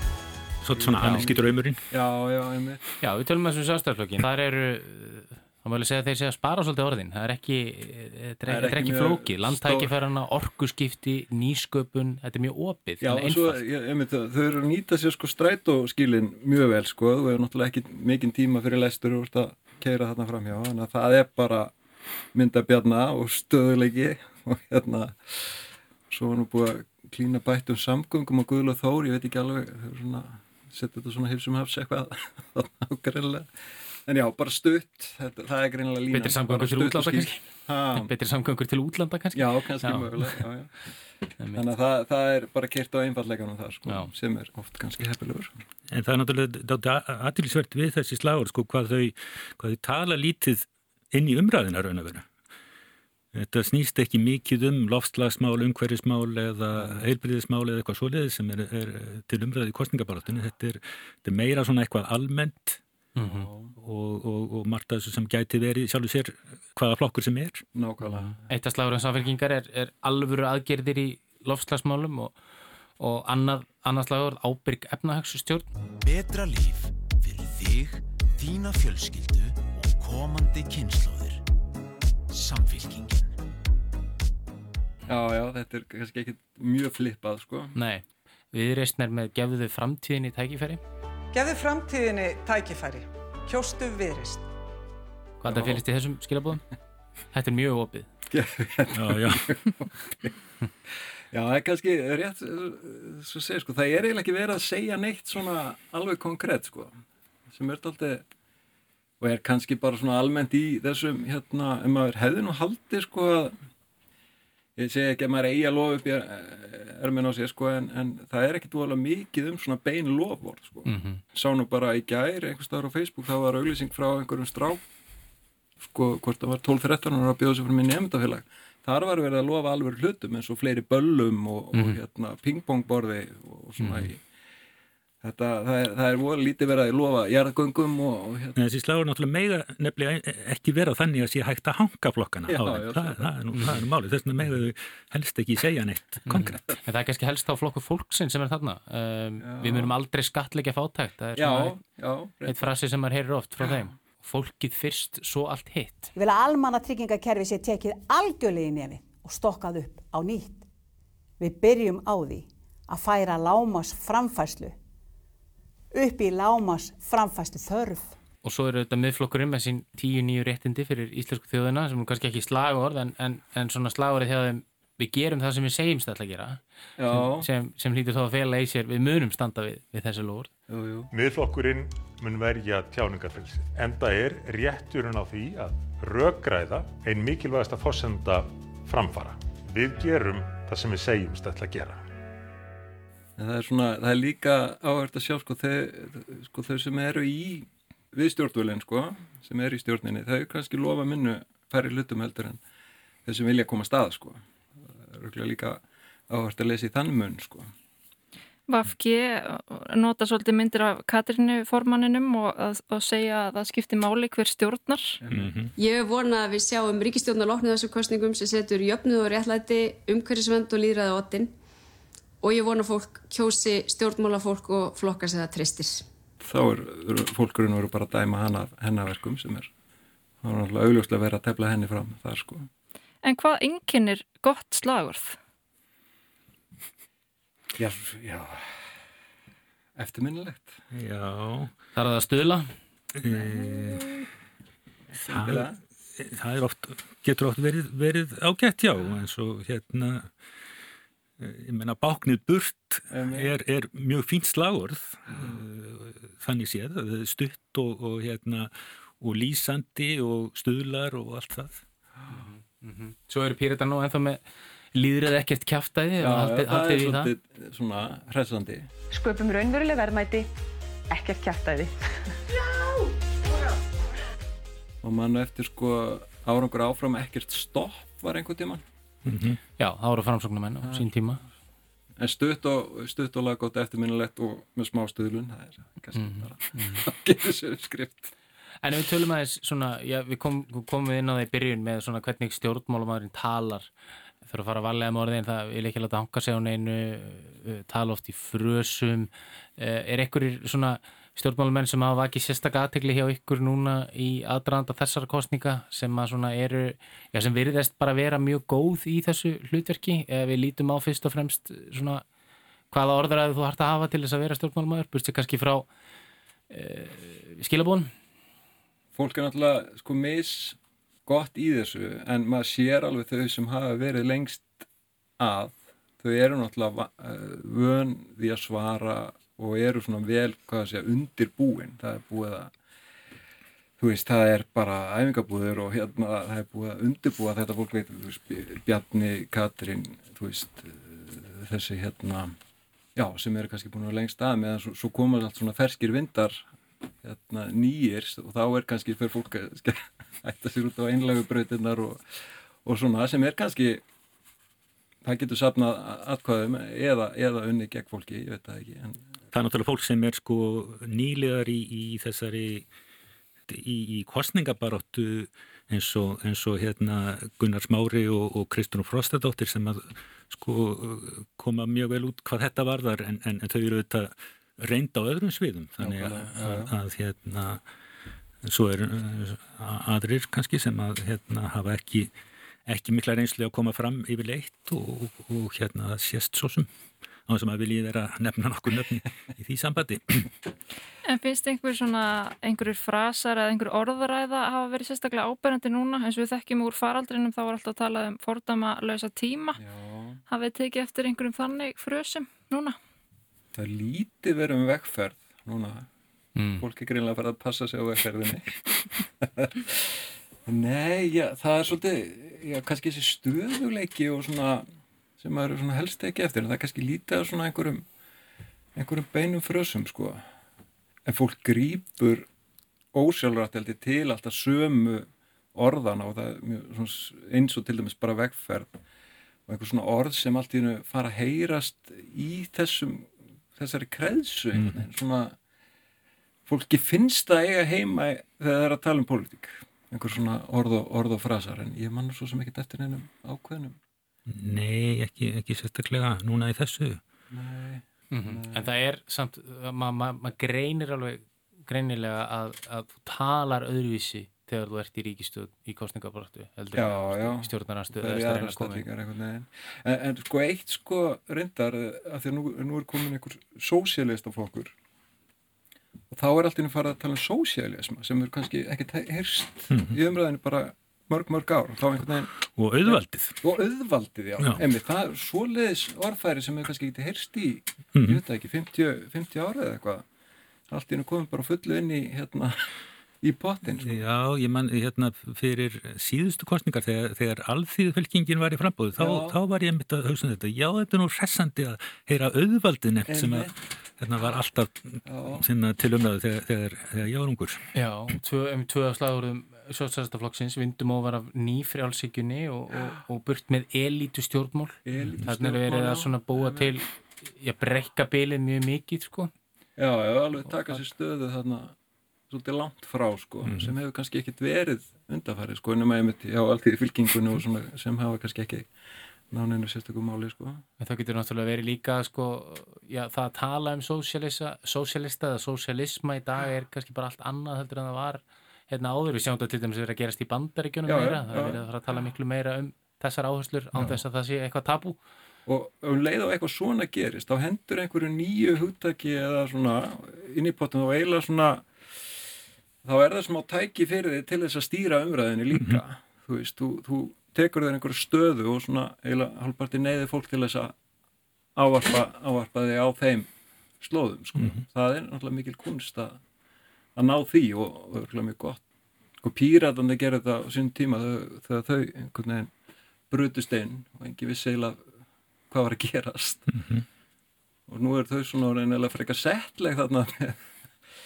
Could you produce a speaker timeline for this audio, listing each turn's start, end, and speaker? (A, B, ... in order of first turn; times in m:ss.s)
0:00.6-0:01.8 A
0:00.8-0:02.8 B
0:01.0-0:01.3 C
0:03.0-0:13.6 C
0:08.5-0:09.9 B
0:13.0-0:21.7 B
0:22.3-0:33.5 B
0:34.0-0:38.1 B
0:36.1-0:40.4 C
0:39.3-0:40.9 B
0:41.4-0:41.6 C
0:41.5-0:45.5 B
0:45.9-0:52.3 A
0:53.3-1:02.8 A
0:56.7-0:57.1 B
1:03.2-1:03.5 C
1:03.2-1:03.7 B
1:03.8-1:07.6 A
1:07.7-1:08.4 B
1:08.5-1:12.4 C
1:13.0-1:15.7 C
1:16.0-1:21.4 D
1:22.3-1:23.3 D
1:25.1-1:27.8 B
1:27.8-1:30.8 C
1:31.3-1:34.5 E
1:35.4-1:36.6 C
1:35.5-1:35.8 B
1:37.3-1:38.1 C
1:38.3-1:40.4 B
1:38.9-1:39.6 A
1:41.3-1:48.2 B
1:49.2-1:53.6 B
1:54.8-2:04.8 B
2:00.9-2:01.2 C
2:05.8-2:14.2 B
2:11.7-2:12.0 C
2:13.8-2:14.1 C
2:15.2-2:18.6 B
2:18.6-2:26.6 A
2:22.5-2:23.6 B
2:26.3-2:31.8 C
2:29.4-2:29.9 B
2:31.4-2:32.7 B
2:32.5-2:36.1 C
2:36.2-2:40.6 F
2:41.4-2:44.8 F
2:45.9-2:48.2 F
2:48.4-3:00.5 C
2:57.0-2:57.5 B
3:00.7-3:01.1 B
3:01.1-3:12.0 G
3:13.4-3:22.6 B
3:23.2-3:27.7 B
3:28.7-3:35.2 H
3:35.2-3:35.5 B
3:35.3-3:35.7 A
3:35.8-3:41.5 I
3:42.4-3:46.1 I
3:46.4-3:49.7 B
3:50.4-3:52.7 B
3:53.2-3:55.4 H
3:57.8-3:58.9 B
4:00.0-4:00.8 B
4:00.9-4:01.7 A
4:02.0-4:02.7 C
4:03.2-4:04.1 A
4:03.3-4:04.1 B
4:05.1-4:05.8 B
4:05.2-4:10.3 A
4:11.4-4:21.8 A
4:13.1-4:13.6 B
4:22.3-4:24.4 C
4:24.9-4:27.3 C
4:26.2-4:28.9 B
4:29.1-4:30.5 J
4:31.1-4:32.0 J
4:35.0-4:38.8 B
4:39.2-4:39.6 A
4:39.8-4:41.4 C
4:40.8-4:41.1 B
4:42.2-4:48.3 B
4:46.2-4:47.1 C
4:48.8-4:53.9 C
4:54.4-5:12.2 C
5:12.9-5:15.9 C
5:16.7-5:18.1 C
5:19.2-5:24.8 B
5:25.4-5:32.7 B
5:34.0-5:42.6 B
5:43.2-5:46.7 B
5:47.2-5:54.0 B
5:55.2-5:59.3 B
5:59.5-6:02.9 A
6:03.7-6:17.8 A
6:16.0-6:16.9 B
6:18.6-6:22.3 A
6:22.9-6:26.9 A
6:27.5-6:30.6 A
6:31.2-6:39.8 H
6:39.8-6:40.4 B
6:40.5-6:43.0 H
6:43.7-6:46.1 B
6:46.6-6:46.8 C
6:46.8-6:54.9 B
6:55.4-6:58.1 B
6:59.0-7:00.4 B
7:01.2-7:02.5 B
7:03.1-7:09.0 B
7:09.7-7:15.6 B
7:14.8-7:15.0 A
7:16.7-7:24.0 B
7:24.5-7:27.2 A
7:27.5-7:28.9 B
7:28.3-7:39.1 C
7:37.0-7:44.9 B
7:46.3-7:52.5 B
7:49.9-7:50.2 A
7:52.7-7:53.6 A
7:53.0-8:00.3 B
7:58.2-7:58.4 A
8:00.9-8:02.9 B
8:03.4-8:04.2 B
8:04.0-8:17.8 A
8:09.2-8:09.6 B
8:13.3-8:13.7 B
8:15.3-8:15.7 B
8:17.9-8:29.5 C
8:25.1-8:27.0 B
8:30.0-8:32.0 B
8:32.5-8:38.9 B
8:33.7-8:33.9 A
8:39.5-8:40.8 B
8:41.0-8:55.2 C
8:51.1-8:51.8 B
8:55.7-9:02.4 B
9:03.0-9:11.0 B
9:05.8-9:06.0 A
9:11.8-9:13.5 B
9:14.0-9:16.4 B
9:14.6-9:14.8 A
9:17.2-9:18.8 B
9:19.4-9:22.7 B
9:23.3-9:25.1 B
9:25.7-9:26.7 B
9:26.7-9:27.0 A
9:27.9-9:30.7 B